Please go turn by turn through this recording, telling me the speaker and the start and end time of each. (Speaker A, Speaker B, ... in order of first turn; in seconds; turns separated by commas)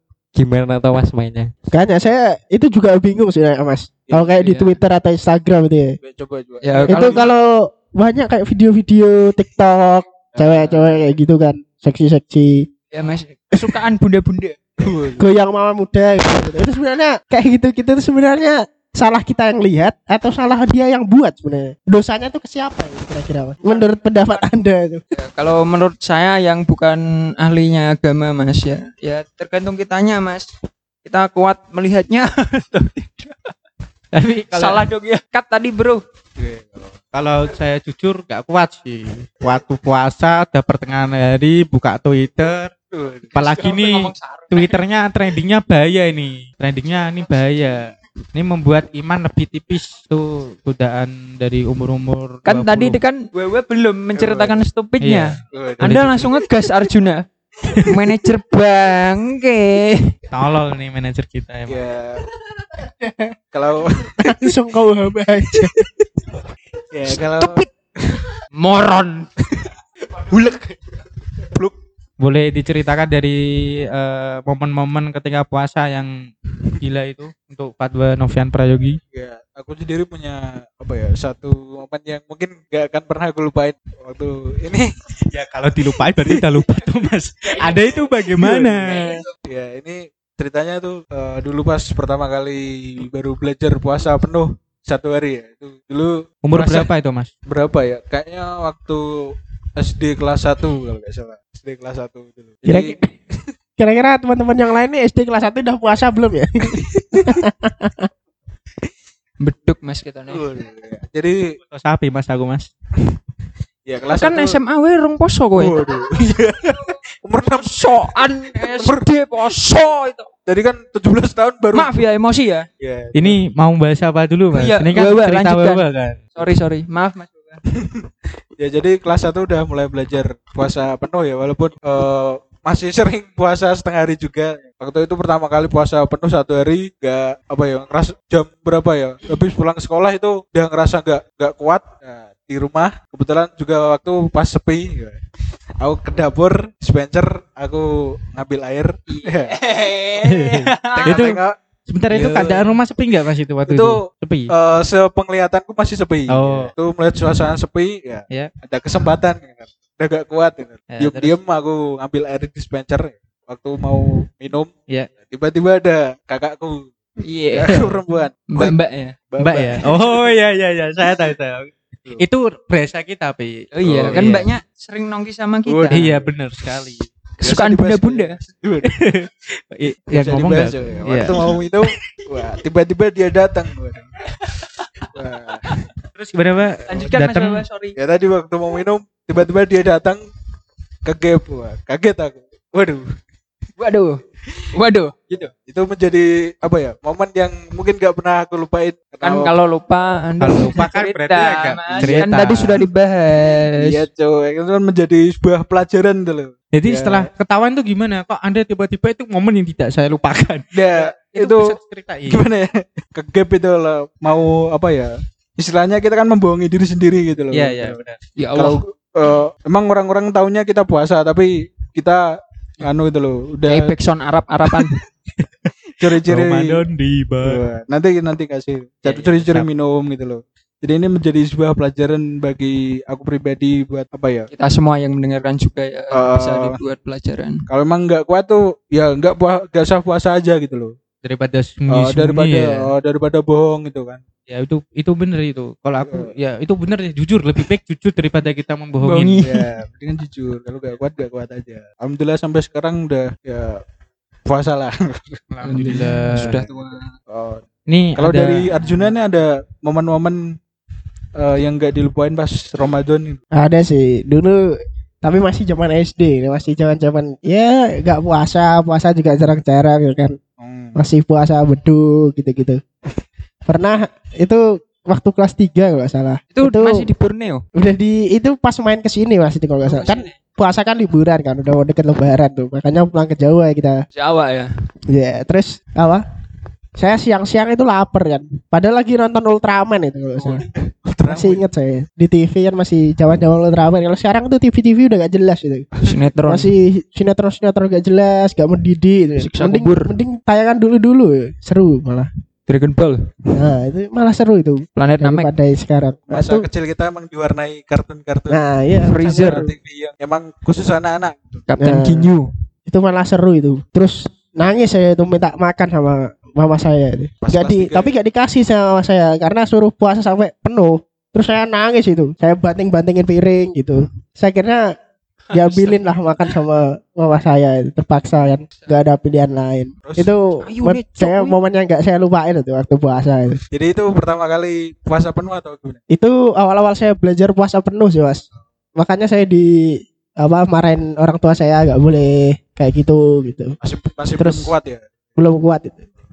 Speaker A: 0.3-1.5, Speaker B: 1.7-6.0, Speaker C: 4.0-4.8, Speaker C: 6.0-7.3, Speaker D: 6.6-7.2, Speaker B: 6.9-12.7, Speaker C: 10.3-11.0, Speaker D: 12.9-14.6, Speaker C: 14.8-15.3, Speaker B: 15.2-25.0, Speaker D: 23.6-24.5, Speaker D: 25.1-30.5, Speaker D: 31.0-33.5, Speaker E: 34.1-34.8, Speaker D: 34.5-36.0, Speaker C: 36.4-37.0, Speaker E: 37.1-42.7, Speaker C: 42.9-43.4, Speaker E: 43.3-47.8, Speaker D: 43.4-44.7, Speaker E: 48.3-53.0, Speaker D: 52.5-57.2, Speaker C: 54.1-54.6, Speaker E: 55.0-55.3, Speaker C: 55.5-56.1, Speaker E: 55.8-56.3, Speaker D: 57.9-60.1, Speaker E: 60.3-61.8, Speaker C: 61.7-62.2, Speaker B: 63.0-63.3, Speaker C: 63.5-64.4, Speaker B: 64.3-65.9, Speaker C: 66.9-68.2, Speaker D: 68.6-69.3, Speaker A: 70.2-70.8, Speaker E: 72.2-76.1, Speaker E: 76.8-79.0, Speaker C: 79.1-84.9, Speaker E: 85.3-89.2, Speaker C: 88.4-88.8, Speaker C: 89.5-96.9, Speaker E: 96.4-97.3, Speaker C: 97.5-99.0, Speaker C: 99.8-103.0, Speaker B: 102.7-103.1, Speaker B: 103.8-108.1, Speaker C: 106.7-107.3, Speaker D: 109.4-110.4, Speaker C: 110.3-111.4, Speaker E: 111.7-112.7, Speaker C: 113.8-114.6, Speaker D: 114.1-115.7, Speaker C: 115.5-119.0, Speaker D: 117.5-120.3, Speaker C: 120.5-122.0, Speaker D: 121.7-122.7, Speaker C: 122.8-123.4, Speaker E: 123.1-126.2, Speaker D: 124.6-127.6, Speaker C: 127.7-128.0, Speaker C: 128.6-145.2, Speaker C: 145.8-149.6, Speaker D: 149.1-151.3, Speaker E: 150.2-154.5, Speaker C: 150.9-151.5, Speaker C: 152.1-152.6, Speaker D: 152.2-152.5, Speaker C: 153.7-166.9, Speaker E: 156.3-156.7, Speaker E: 160.9-161.3, Speaker D: 167.2-167.8, Speaker C: 167.5-168.8, Speaker D: 168.5-169.1, Speaker C: 169.3-169.9, Speaker E: 169.4-174.5, Speaker D: 173.7-176.1, Speaker A: 173.9-174.2, Speaker C: 175.7-176.3, Speaker E: 175.9-177.1, Speaker D: 177.4-178.4, Speaker C: 177.4-178.9, Speaker E: 178.8-181.3, Speaker C: 180.1-184.1, Speaker D: 184.4-184.9, Speaker C: 185.1-185.6, Speaker E: 186.2-187.6, Speaker D: 186.9-187.9, Speaker C: 187.9-190.2, Speaker C: 191.1-193.0, Speaker D: 193.8-194.1, Speaker D: 194.7-195.5, Speaker C: 195.6-199.5, Speaker D: 199.2-204.1, Speaker E: 200.4-202.8, Speaker C: 201.9-202.2, Speaker C: 203.8-207.3, Speaker E: 206.7-210.7, Speaker C: 210.7-211.7, Speaker E: 211.3-212.4, Speaker C: 212.3-218.0, Speaker E: 217.5-218.2, Speaker D: 218.4-218.8, Speaker C: 218.5-222.2, Speaker C: 222.8-223.9, Speaker D: 223.7-224.9, Speaker E: 226.0-227.6, Speaker C: 226.0-226.8, Speaker C: 227.4-234.5, Speaker E: 229.0-229.7, Speaker D: 234.5-237.6, Speaker C: 236.1-236.8, Speaker C: 237.7-240.9, Speaker E: 241.2-242.6, Speaker C: 241.9-244.2, Speaker E: 244.5-249.4, Speaker C: 246.1-246.3, Speaker D: 249.0-249.7, Speaker C: 249.4-253.8, Speaker C: 254.5-256.1, Speaker E: 255.5-256.6, Speaker D: 255.7-257.1, Speaker C: 257.3-257.6, Speaker E: 257.9-258.9, Speaker C: 258.2-260.4, Speaker C: 261.4-263.4, Speaker B: 263.6-264.6, Speaker B: 265.2-270.4, Speaker C: 270.6-271.0, Speaker B: 271.0-272.8, Speaker B: 273.7-277.1, Speaker D: 276.5-277.6, Speaker B: 277.8-284.0, Speaker D: 279.9-280.3, Speaker D: 284.1-284.7, Speaker B: 285.1-286.2, Speaker B: 287.0-290.6, Speaker C: 290.4-291.6, Speaker B: 291.2-295.9, Speaker C: 295.9-296.3, Speaker D: 296.0-296.7, Speaker B: 296.5-302.3, Speaker D: 299.4-300.1, Speaker D: 302.7-303.2, Speaker B: 303.5-306.7, Speaker D: 305.0-305.5, Speaker C: 306.3-308.6, Speaker B: 308.5-309.6, Speaker D: 309.0-309.7, Speaker C: 309.1-311.6, Speaker D: 311.7-312.5, Speaker B: 311.8-312.3, Speaker B: 312.9-324.8, Speaker C: 317.4-318.1, Speaker D: 325.5-326.0, Speaker B: 325.5-333.6, Speaker D: 328.7-329.0, Speaker C: 330.0-330.3, Speaker D: 330.6-331.6, Speaker C: 333.7-336.0, Speaker B: 336.1-338.4, Speaker B: 339.0-339.7, Speaker B: 340.4-343.7, Speaker C: 343.8-345.0, Speaker B: 344.4-344.7, Speaker B: 345.4-346.1